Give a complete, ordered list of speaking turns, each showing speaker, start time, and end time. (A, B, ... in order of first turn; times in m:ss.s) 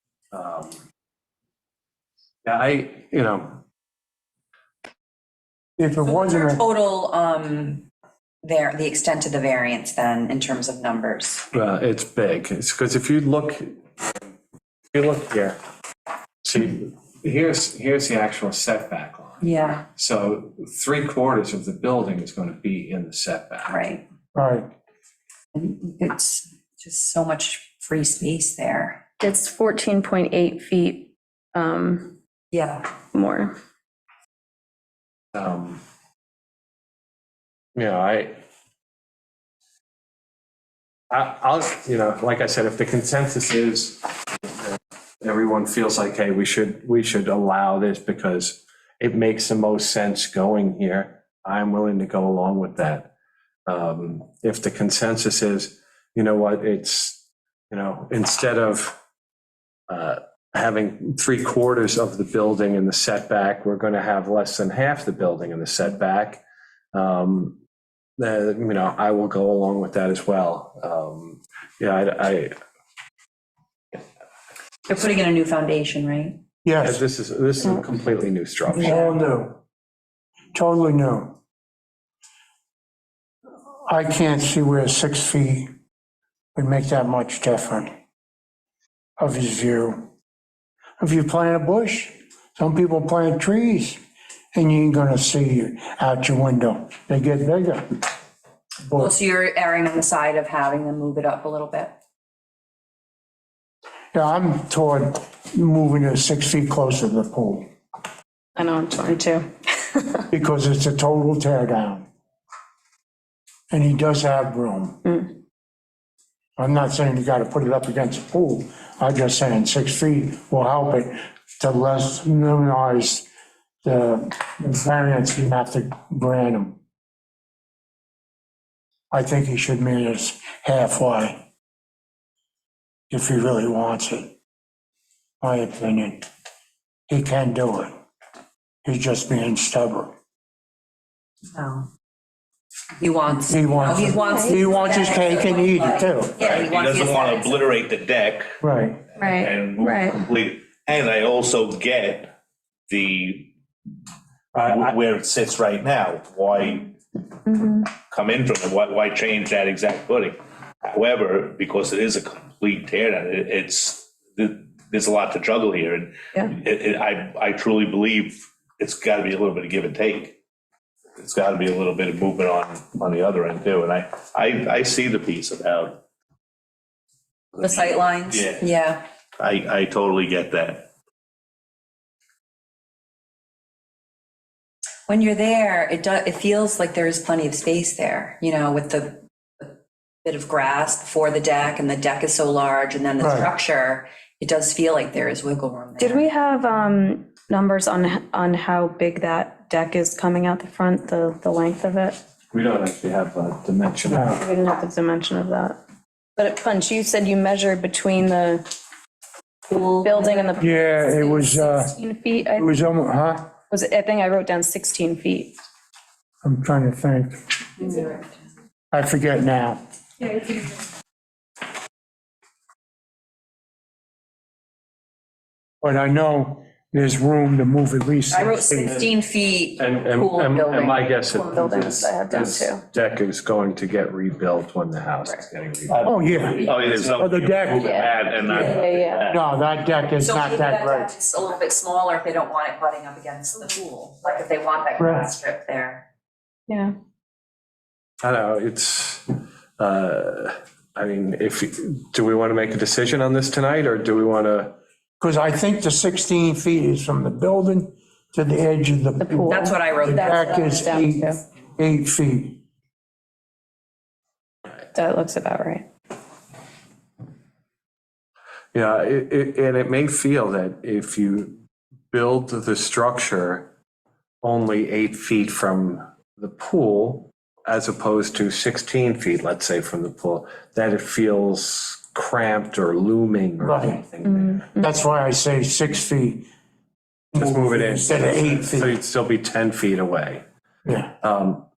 0:00.3-0:00.8 A
0:02.4-0:03.6 A
0:05.8-0:06.6 B
0:06.0-0:07.8 C
0:08.4-0:11.4 C
0:11.5-0:14.2 A
0:14.9-0:15.6 A
0:16.4-0:23.8 A
0:19.4-0:19.8 C
0:23.7-0:24.0 C
0:24.3-0:24.7 B
0:25.5-0:29.0 C
0:29.2-0:32.1 D
0:32.5-0:32.9 C
0:33.1-0:33.5 D
0:35.3-0:35.8 A
0:37.7-0:38.4 A
0:41.1-0:53.1 A
0:53.7-0:59.0 A
0:59.9-1:06.4 A
1:06.9-1:07.6 A
1:08.2-1:12.5 A
1:14.9-1:16.4 C
1:16.6-1:17.0 B
1:16.8-1:19.1 A
1:18.7-1:19.2 C
1:18.8-1:19.6 B
1:20.5-1:21.4 B
1:23.9-1:25.7 B
1:26.5-1:27.9 B
1:29.2-1:30.1 B
1:31.0-1:34.0 B
1:34.5-1:37.8 B
1:39.0-1:42.0 C
1:44.1-1:47.7 B
1:48.6-1:50.2 D
1:50.3-1:52.0 B
1:53.7-1:55.0 B
1:56.6-2:03.2 B
2:03.8-2:06.8 B
2:09.1-2:11.4 B
2:13.1-2:14.3 B
2:15.4-2:16.3 B
2:17.1-2:17.9 B
2:18.8-2:20.1 B
2:21.5-2:21.9 C
2:23.0-2:27.7 C
2:23.5-2:26.4 B
2:24.2-2:24.7 D
2:26.4-2:28.6 E
2:28.6-2:29.0 B
2:29.2-2:30.2 D
2:29.2-2:32.3 E
2:32.9-2:33.5 E
2:34.5-2:34.9 A
2:34.6-2:36.9 E
2:37.4-2:37.9 D
2:38.1-2:50.4 E
2:51.2-2:56.0 E
2:57.5-2:58.6 E
2:57.6-2:59.0 C
2:59.4-3:00.9 E
3:05.1-3:16.2 C
3:13.2-3:13.5 B
3:16.0-3:22.2 D
3:22.5-3:24.3 A
3:24.1-3:24.4 B
3:24.3-3:25.8 D
3:26.4-3:28.6 D
3:29.7-3:30.5 C
3:30.0-3:32.8 D
3:30.6-3:32.0 B
3:32.6-3:33.5 B
3:33.7-3:35.5 D
3:36.4-3:37.4 B
3:37.8-3:38.2 C
3:38.9-3:39.8 B
3:45.8-3:49.0 B
3:48.3-3:51.8 C
3:49.8-3:56.1 A
3:51.5-3:52.8 D
3:55.9-3:59.4 E
3:56.0-3:57.9 B
3:56.8-3:57.2 A
3:57.8-3:59.2 D
3:58.5-3:58.8 C
3:59.3-4:01.1 B
4:00.2-4:06.0 C
4:05.0-4:05.3 B
4:06.7-4:06.9 D
4:08.2-4:14.8 A
4:15.2-4:22.6 B
4:19.2-4:21.4 D
4:19.5-4:21.0 C
4:24.9-4:25.8 D
4:28.7-4:31.5 A
4:32.1-4:33.7 A
4:34.4-4:44.6 A
4:43.6-4:44.0 B
4:44.2-4:44.9 D
4:44.8-4:46.5 B
4:47.3-4:50.4 A
4:47.3-4:49.0 B
4:50.8-4:51.1 B
4:51.2-4:51.6 A